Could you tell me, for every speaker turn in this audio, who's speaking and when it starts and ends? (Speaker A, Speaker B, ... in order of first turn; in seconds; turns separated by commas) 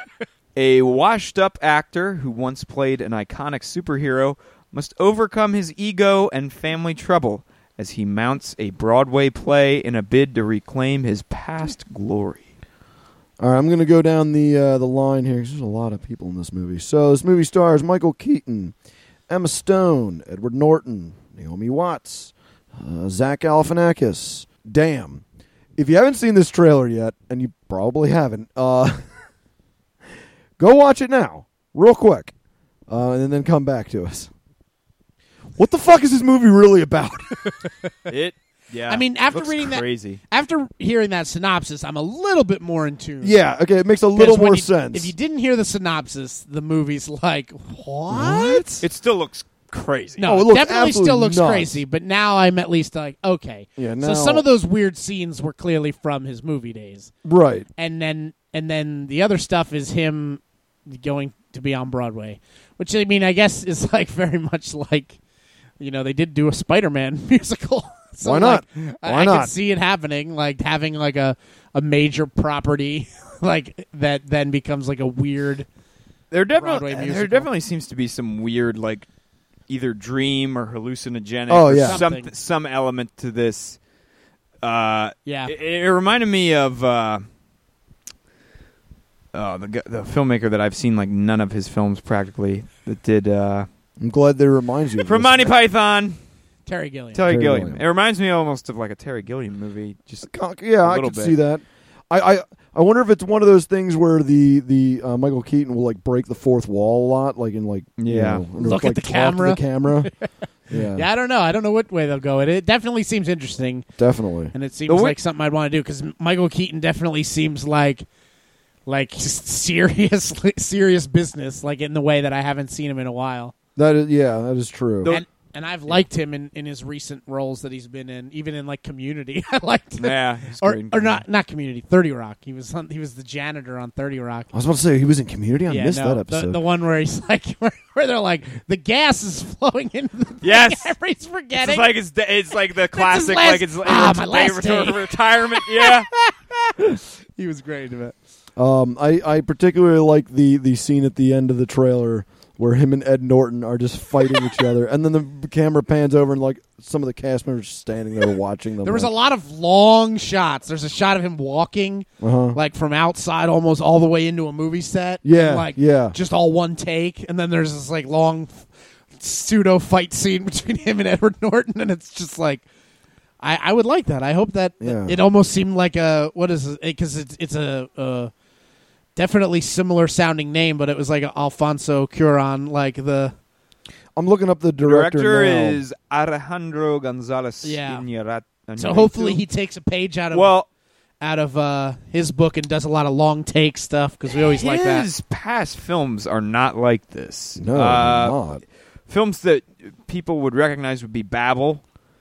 Speaker A: 0.6-12.5, Speaker B: 13.4-18.7, Speaker B: 19.3-25.2, Speaker B: 25.8-29.0, Speaker B: 30.6-32.3, Speaker B: 32.9-34.3, Speaker B: 35.6-37.3, Speaker A: 38.1-40.2, Speaker C: 38.9-43.4, Speaker B: 43.2-45.1, Speaker C: 44.1-48.6, Speaker B: 48.1-48.8, Speaker A: 48.8-50.2, Speaker C: 50.2-57.1, Speaker B: 50.2-51.8, Speaker B: 53.8-54.5, Speaker B: 57.2-57.7, Speaker C: 57.8-65.2, Speaker C: 65.8-75.7, Speaker B: 68.2-69.5, Speaker A: 76.3-79.0, Speaker C: 76.6-77.5, Speaker A: 79.7-83.8, Speaker B: 81.5-82.0, Speaker C: 81.8-82.3, Speaker A: 84.6-87.2, Speaker C: 85.2-85.5, Speaker A: 89.3-93.7, Speaker B: 94.0-95.5, Speaker A: 95.0-96.2, Speaker C: 96.7-97.2, Speaker A: 97.1-100.3, Speaker B: 97.2-97.8, Speaker B: 100.2-110.1, Speaker A: 100.8-101.3, Speaker A: 108.0-108.4, Speaker C: 108.6-110.2, Speaker B: 110.7-111.1, Speaker C: 110.9-113.9, Speaker B: 114.0-114.5, Speaker C: 114.5-118.0, Speaker A: 114.9-115.2, Speaker C: 118.8-123.5, Speaker B: 123.8-125.1, Speaker C: 125.0-134.5, Speaker A: 130.0-131.2, Speaker B: 134.5-136.6, Speaker C: 135.7-141.9, Speaker A: 140.4-140.9, Speaker A: 141.6-146.1, Speaker C: 142.9-145.0, Speaker C: 145.6-146.7, Speaker C: 147.3-148.1, Speaker B: 148.6-159.1, Speaker C: 158.8-172.6, Speaker B: 162.2-162.6, Speaker B: 165.2-166.2, Speaker C: 173.4-178.3, Speaker B: 174.8-175.2, Speaker C: 179.2-183.3, Speaker B: 184.2-185.8, Speaker A: 184.8-189.4, Speaker C: 187.6-188.0, Speaker C: 188.8-190.5, Speaker A: 190.3-190.7, Speaker C: 191.2-195.1, Speaker A: 194.5-198.4, Speaker B: 197.6-198.6, Speaker A: 199.1-201.8